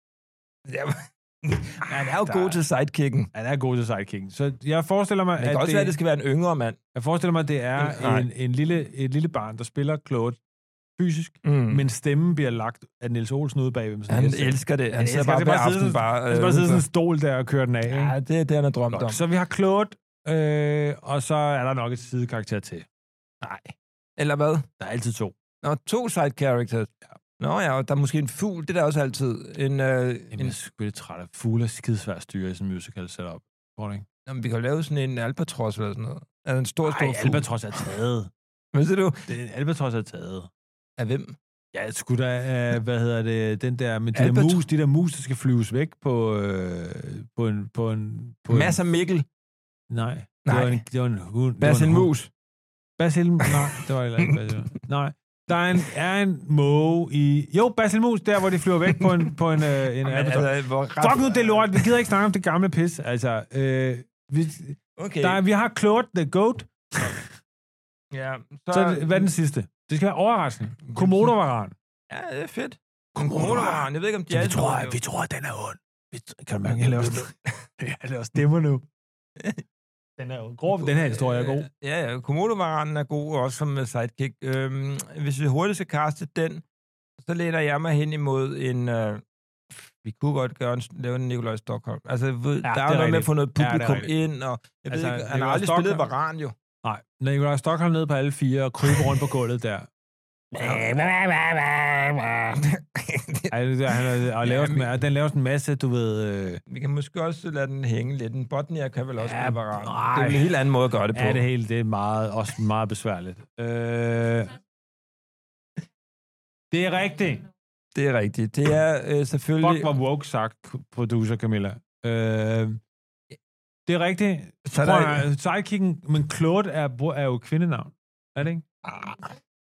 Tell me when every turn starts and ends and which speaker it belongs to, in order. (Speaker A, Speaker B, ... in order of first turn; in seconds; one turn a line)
Speaker A: 0.7-3.3
Speaker B: 1.9-2.6
Speaker B: 3.3-6.0
Speaker A: 5.4-6.8
Speaker B: 6.9-10.4
Speaker A: 7.8-8.3
Speaker B: 11.0-18.2
Speaker A: 11.4-11.8
Speaker A: 14.1-16.9
Speaker A: 17.9-19.2
Speaker B: 18.9-22.9
Speaker A: 23.4-24.7
Speaker B: 24.8-25.3
Speaker A: 25.6-30.6
Speaker B: 30.3-34.0
Speaker A: 34.3-37.5
Speaker B: 36.8-38.3
Speaker A: 38.7-39.3
Speaker B: 39.3-40.5
Speaker A: 41.0-41.4
Speaker B: 41.7-48.8
Speaker A: 44.1-44.6
Speaker A: 48.5-49.3
Speaker B: 49.9-52.1
Speaker A: 50.5-50.8
Speaker A: 51.6-52.3
Speaker B: 53.0-67.3
Speaker A: 58.9-59.2
Speaker A: 60.0-62.0
Speaker A: 65.0-65.4
Speaker A: 68.1-69.3
Speaker B: 68.7-71.7
Speaker A: 70.9-71.3
Speaker A: 72.1-75.0
Speaker B: 73.2-78.9
Speaker A: 79.4-79.6
Speaker B: 80.2-81.7
Speaker A: 80.7-86.7
Speaker A: 87.2-96.6
Speaker B: 92.6-94.1
Speaker B: 94.9-96.0
Speaker B: 96.8-99.9
Speaker A: 100.5-100.9
Speaker B: 100.5-102.6
Speaker A: 102.6-104.9
Speaker B: 103.5-106.6
Speaker A: 106.7-111.4
Speaker B: 109.2-110.5
Speaker B: 111.1-114.6
Speaker B: 116.7-117.5
Speaker A: 118.0-119.9
Speaker B: 119.6-122.8
Speaker B: 123.9-129.2
Speaker A: 124.7-125.3